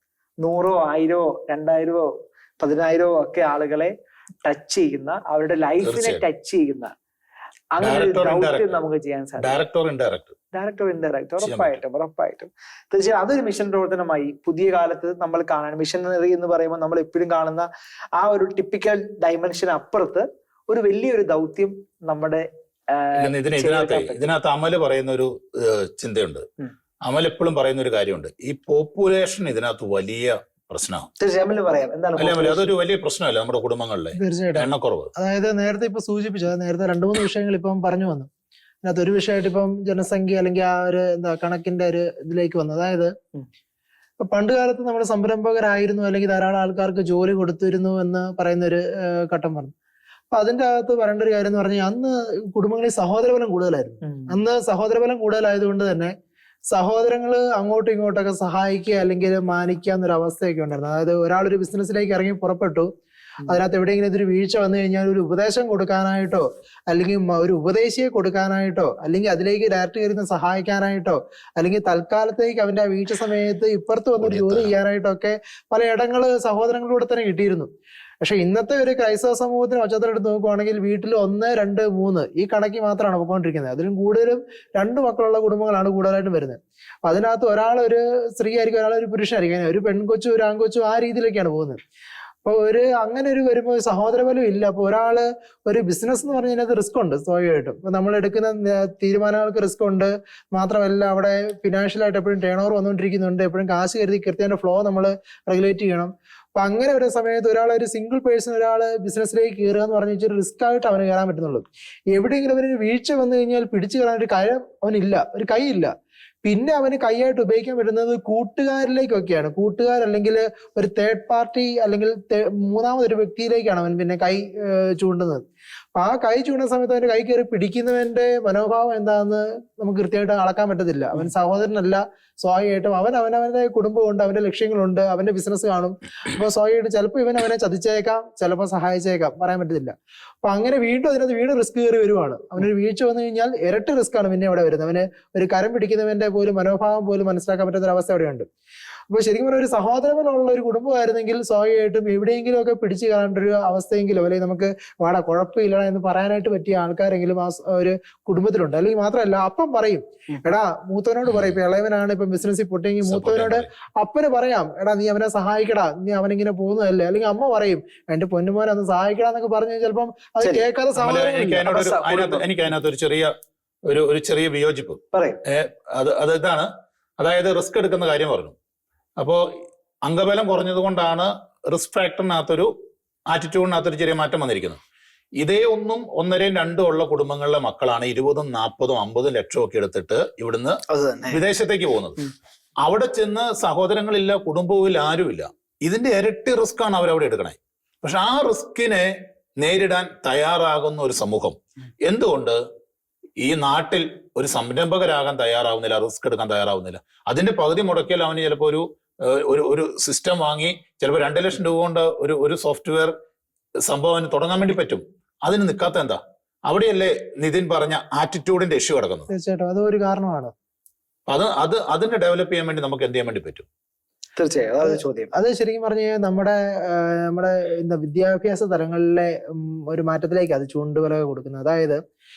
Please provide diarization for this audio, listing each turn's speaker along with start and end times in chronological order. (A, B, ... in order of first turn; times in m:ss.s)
0:00.4-0:03.9 A
0:04.4-0:06.9 A
0:05.8-0:06.2 B
0:07.7-0:09.6 A
0:07.8-0:08.8 B
0:09.4-0:10.3 B
0:10.5-0:24.3 A
0:11.4-0:11.8 B
0:23.2-0:26.4 B
0:27.0-0:31.1 B
0:31.2-0:32.7 A
0:32.2-0:35.1 B
0:34.2-0:38.3 C
0:38.8-0:43.1 C
0:44.2-0:49.7 C
0:50.3-0:56.1 C
0:54.0-0:54.3 A
0:56.7-1:02.9 C
1:03.5-1:17.7 C
1:14.2-1:14.7 B
1:18.2-1:31.8 C
1:32.4-1:55.9 C
1:56.4-2:05.4 C
2:05.9-2:28.5 C
2:29.1-2:51.6 C
2:41.3-2:41.6 B
2:43.0-2:43.7 B
2:51.0-2:53.3 B
2:51.6-2:52.4 A
2:53.9-2:58.5 B
2:55.1-2:55.4 A
2:59.2-2:59.4 B
3:00.0-3:02.7 B
3:03.3-3:04.8 B
3:05.4-3:12.2 B
3:10.9-3:11.4 A
3:12.8-3:22.6 B
3:23.4-3:33.1 B
3:33.8-3:39.3 B
3:39.3-3:40.5 C
3:41.3-3:43.6 B
3:44.4-3:45.3 A
3:44.8-3:52.0 C